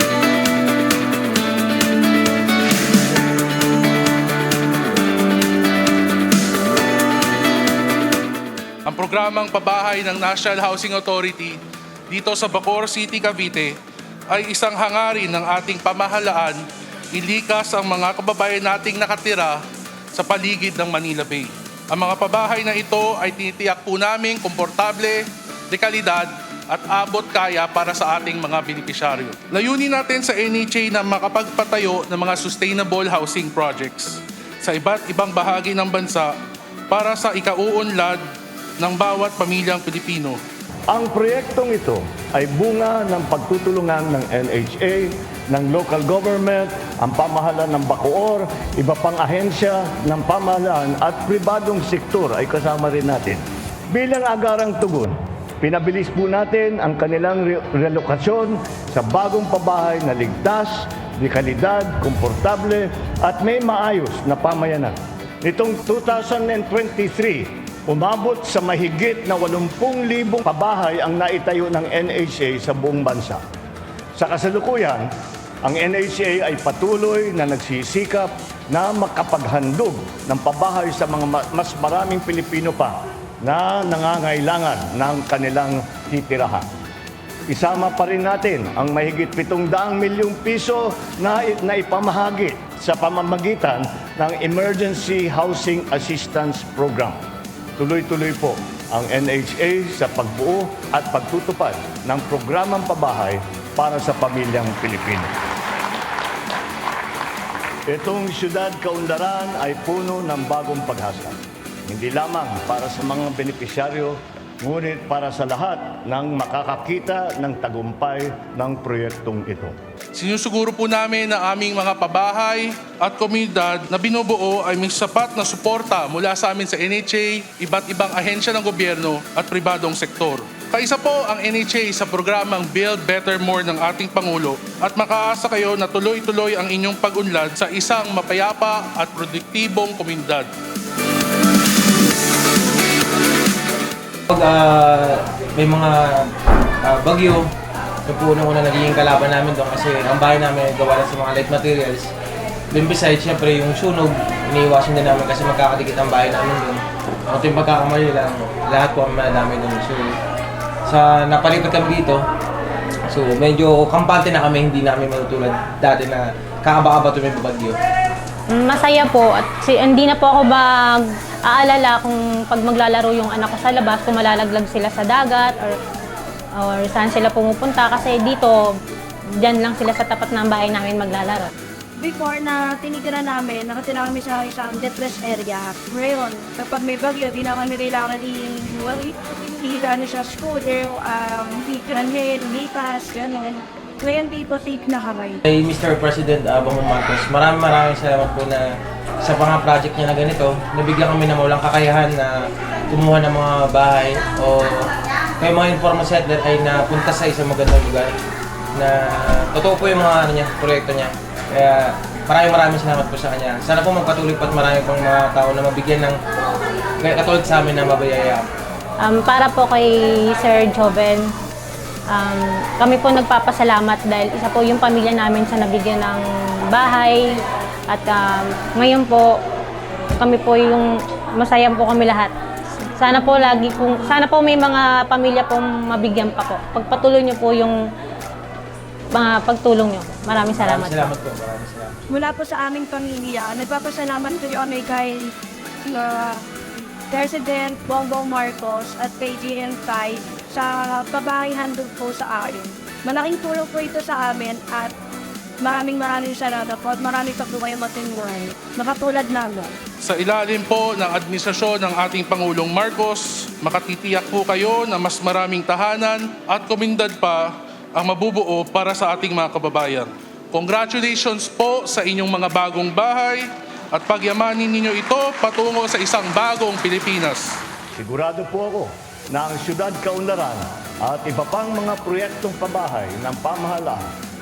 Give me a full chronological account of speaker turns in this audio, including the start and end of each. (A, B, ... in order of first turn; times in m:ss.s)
0:08.8-0:11.6 A
0:12.1-0:13.8 A
0:14.3-0:16.6 A
0:17.1-0:19.6 A
0:20.1-0:36.3 A
0:36.9-0:38.2 A
0:38.8-0:40.4 A
0:40.9-1:13.4 B
1:14.2-1:15.1 B
1:15.6-1:26.7 B
1:27.5-1:37.2 B
1:37.8-1:45.3 B
1:47.9-1:59.7 B
2:00.1-2:20.5 A
2:24.3-2:26.3 C
2:26.8-2:27.5 C
2:28.0-2:32.1 C
2:32.7-2:40.2 C
2:40.8-2:42.2 C
2:43.1-2:47.8 C
2:48.5-2:55.7 D
2:56.6-2:58.7 D
2:59.4-3:01.5 D
3:02.0-3:15.4 E
3:15.5-3:18.6 C
3:19.2-3:22.3 C
3:22.9-3:28.1 C
3:28.7-3:36.2 C
3:37.0-3:38.4 C
3:39.0-3:41.3 D
3:42.1-3:49.4 D
3:50.2-3:52.3 D
3:52.8-3:57.8 D
3:59.1-4:01.1 D
4:00.5-4:02.0 C
4:02.1-4:06.4 E
4:07.1-4:14.9 E
4:15.6-4:19.7 E
4:20.0-4:37.6 A
4:37.9-4:44.1 B